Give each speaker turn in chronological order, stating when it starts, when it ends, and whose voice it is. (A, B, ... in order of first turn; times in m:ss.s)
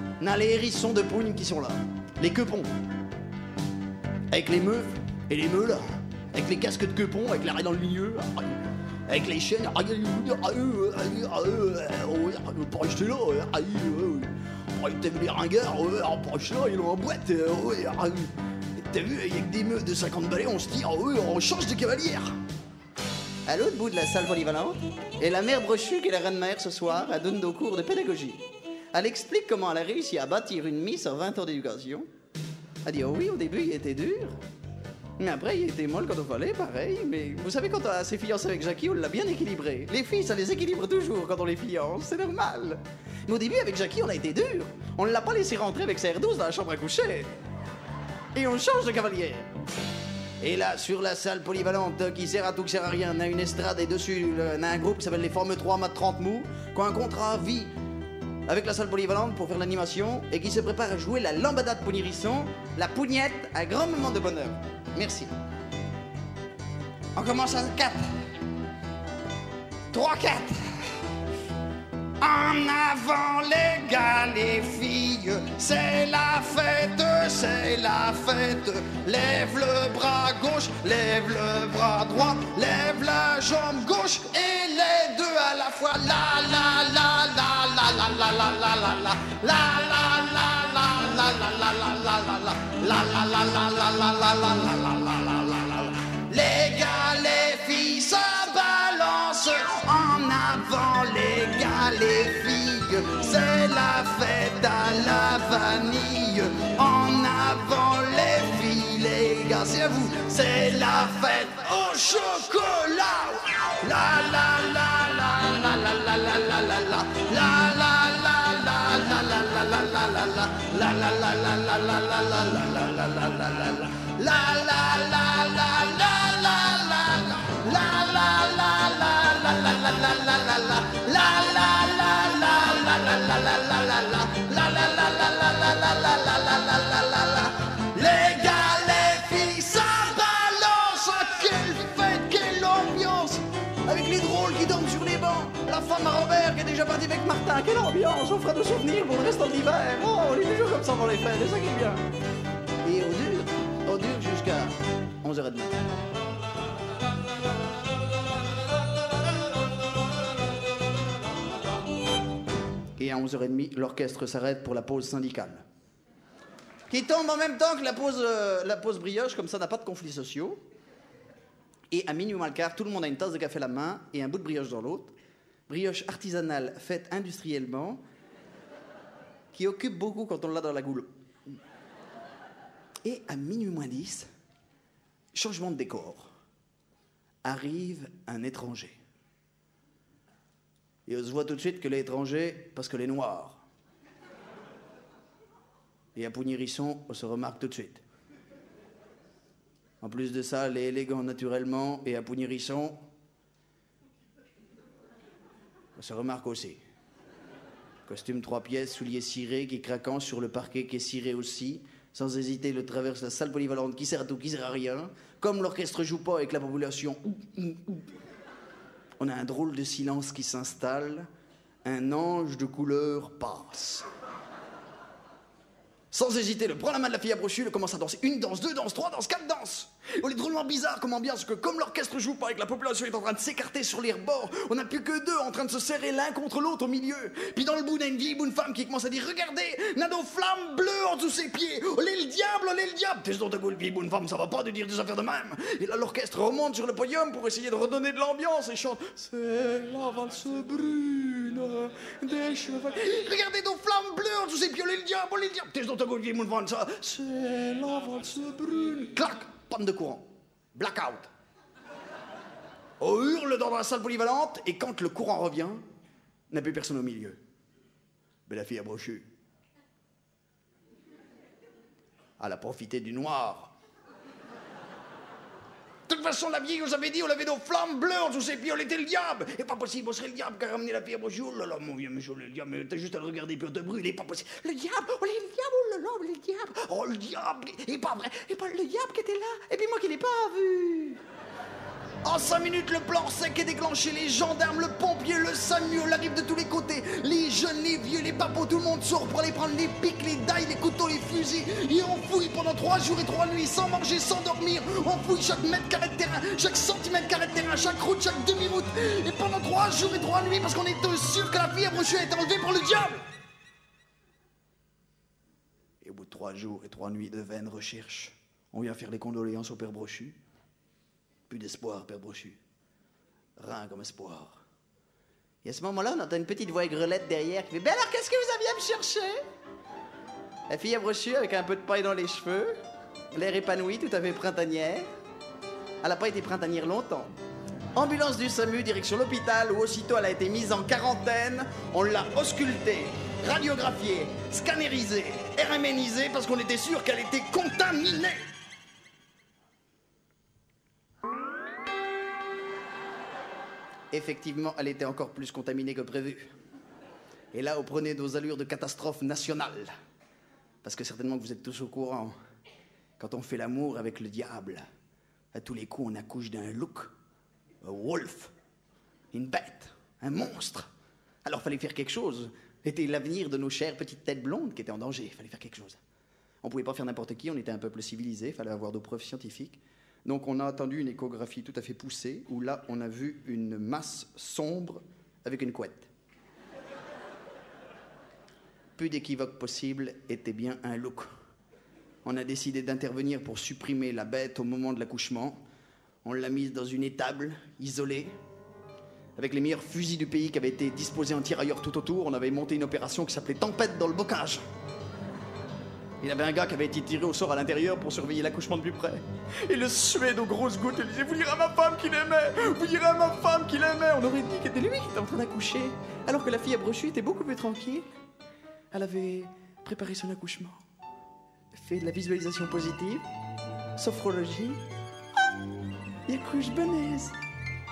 0:00.2-0:02.7 A
0:04.3-0:22.4 A
0:23.5-0:28.4 A
0:28.9-0:32.1 A
0:32.8-0:34.4 A
0:35.2-0:47.3 A
0:48.4-0:49.5 A
0:50.4-0:57.7 A
0:58.5-1:05.3 A
1:07.2-1:08.1 A
1:09.9-1:10.6 A
1:12.2-2:32.0 A
2:32.8-2:35.8 A
2:43.0-2:45.6 A
2:46.9-2:50.6 A
2:51.9-2:55.1 A
2:55.7-2:58.0 A
2:59.5-3:01.6 A
3:03.0-3:04.3 A
3:05.3-3:06.3 A
3:07.4-3:09.0 A
3:11.1-3:13.6 A
3:16.2-3:18.0 A
3:20.0-3:23.0 A
3:26.0-3:26.8 A
3:28.1-3:38.1 A
3:39.2-3:41.3 A
3:41.8-3:44.1 A
3:46.1-4:21.3 A
4:23.0-4:25.8 A
4:26.5-4:27.4 A
4:28.5-4:29.3 A
4:32.4-4:33.7 A
4:36.1-4:51.2 A
4:52.2-5:13.2 A
5:16.0-5:20.4 A
5:21.5-5:22.6 A
5:23.6-5:24.6 A
5:25.6-5:29.4 A
5:30.7-5:32.8 A
5:33.3-5:35.1 A
5:36.0-5:37.3 A
5:38.0-5:48.4 A
5:54.1-5:56.5 A
5:57.5-5:59.9 A
6:00.8-6:02.4 A
6:03.2-6:04.9 A
6:05.5-6:07.1 A
6:07.8-6:08.5 A
6:09.3-6:10.9 A
6:11.4-6:16.0 A
6:16.6-6:26.1 A
6:29.0-6:31.3 A
6:32.2-6:35.6 A
6:36.2-6:38.4 A
6:39.4-6:44.6 A
6:46.2-6:58.1 A
6:58.9-7:00.8 A
7:01.7-7:03.3 A
7:04.0-7:04.8 A
7:06.3-7:07.4 A